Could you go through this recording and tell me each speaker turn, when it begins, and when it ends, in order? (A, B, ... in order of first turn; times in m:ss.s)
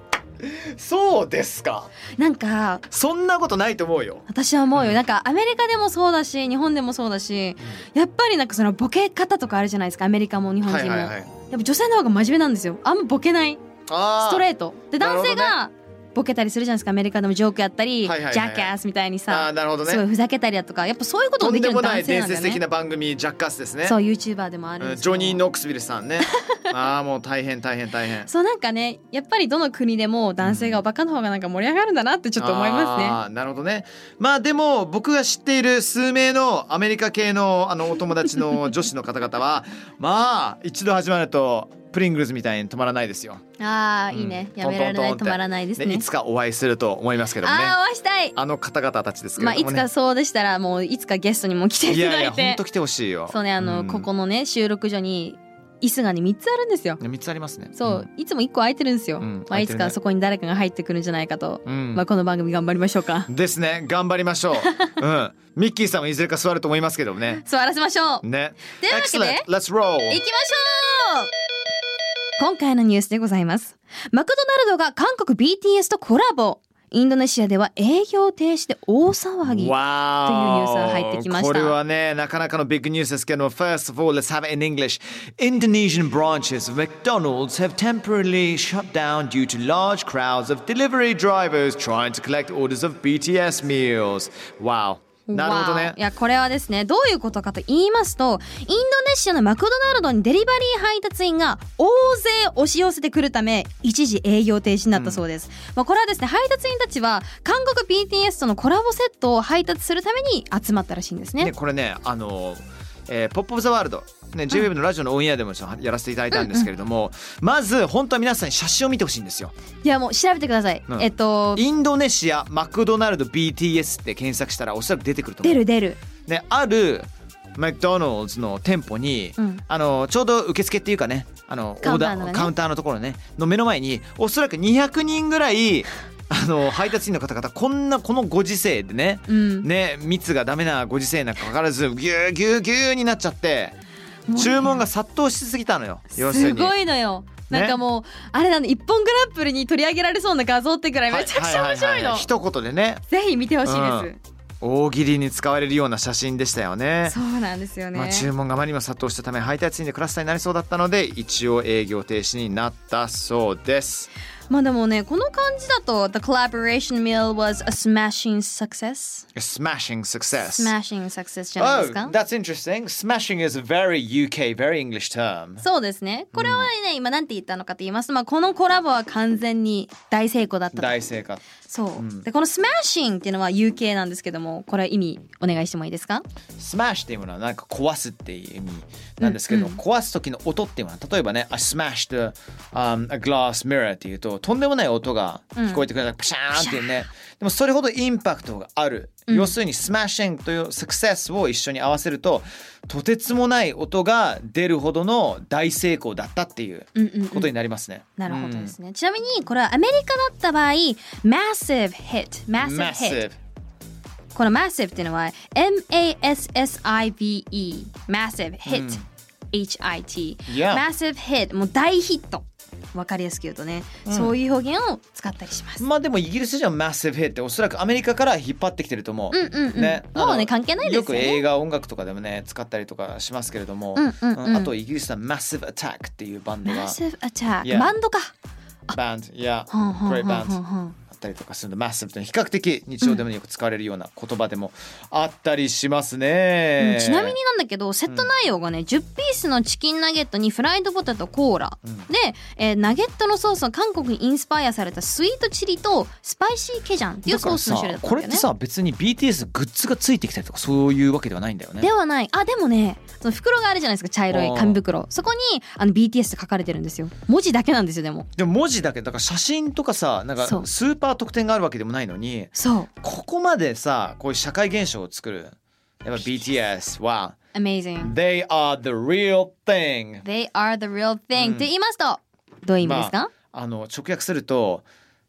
0:00.4-0:01.9 A
0:02.2-0:02.8 B
0:02.9-0:05.0 A
0:04.3-0:13.6 B
0:10.6-0:11.3 A
0:13.9-0:14.4 A
0:14.2-0:22.6 B
0:15.0-0:15.6 A
0:18.0-0:18.7 A
0:19.3-0:20.0 A
0:21.4-0:24.0 A
0:23.8-0:25.4 B
0:24.8-0:28.3 A
0:28.2-0:33.2 B
0:30.4-0:30.8 A
0:32.4-0:43.4 A
0:43.6-0:46.0 B
0:44.1-0:47.8 A
0:47.4-0:48.4 B
0:48.3-0:49.8 A
0:49.4-0:52.6 B
0:51.9-0:54.1 A
0:53.3-0:57.0 B
0:57.0-0:58.1 A
0:57.8-1:03.3 B
0:59.2-0:59.9 A
1:01.6-1:02.0 A
1:03.3-1:07.4 A
1:04.6-1:04.9 B
1:07.4-1:08.2 B
1:08.2-1:10.2 A
1:08.8-1:09.4 B
1:10.1-1:11.3 B
1:12.4-1:21.8 B
1:19.4-1:36.0 A
1:35.3-1:51.5 B
1:44.9-1:45.2 A
1:51.4-1:59.5 A
1:56.3-1:56.7 B
1:59.8-2:01.6 B
2:00.9-2:05.6 A
2:05.4-2:06.0 B
2:06.2-2:23.8 A
2:11.8-2:12.5 B
2:19.3-2:19.7 B
2:24.3-2:24.8 B
2:24.3-2:26.8 A
2:26.1-2:32.3 B
2:27.5-2:27.8 A
2:31.1-2:33.0 A
2:33.1-2:34.2 B
2:33.6-2:34.1 A
2:34.6-2:37.2 A
2:37.0-2:38.3 B
2:37.9-2:44.1 A
2:44.5-2:49.2 B
2:49.3-2:50.7 A
2:50.4-2:52.1 B
2:51.6-2:55.6 A
2:55.6-3:01.0 B
2:56.3-2:56.7 A
3:00.7-3:01.4 A
3:01.6-3:06.2 B
3:02.0-3:02.2 A
3:06.6-3:28.7 A
3:09.2-3:09.8 B
3:15.6-3:15.9 B
3:16.5-3:17.1 B
3:19.3-3:19.5 B
3:27.0-3:27.5 B
3:28.2-3:33.2 B
3:32.6-3:33.4 A
3:34.3-3:45.8 B
3:38.6-3:39.0 A
3:40.5-3:40.8 A
3:44.0-3:44.3 A
3:45.8-3:57.0 A
3:49.3-3:51.4 B
3:54.0-3:54.7 B
3:56.6-3:58.3 B
3:57.6-3:57.9 A
3:58.9-4:07.4 A
3:59.7-4:00.9 B
4:06.8-4:18.4 B
4:17.2-4:21.9 A
4:21.8-4:28.3 B
4:24.3-4:24.8 A
4:28.4-4:37.4 A
4:30.4-4:30.7 B
4:32.5-4:32.9 B
4:36.2-4:36.4 B
4:37.5-4:38.1 B
4:38.0-4:40.2 A
4:40.2-4:43.3 B
4:41.4-4:41.7 A
4:42.8-4:44.8 A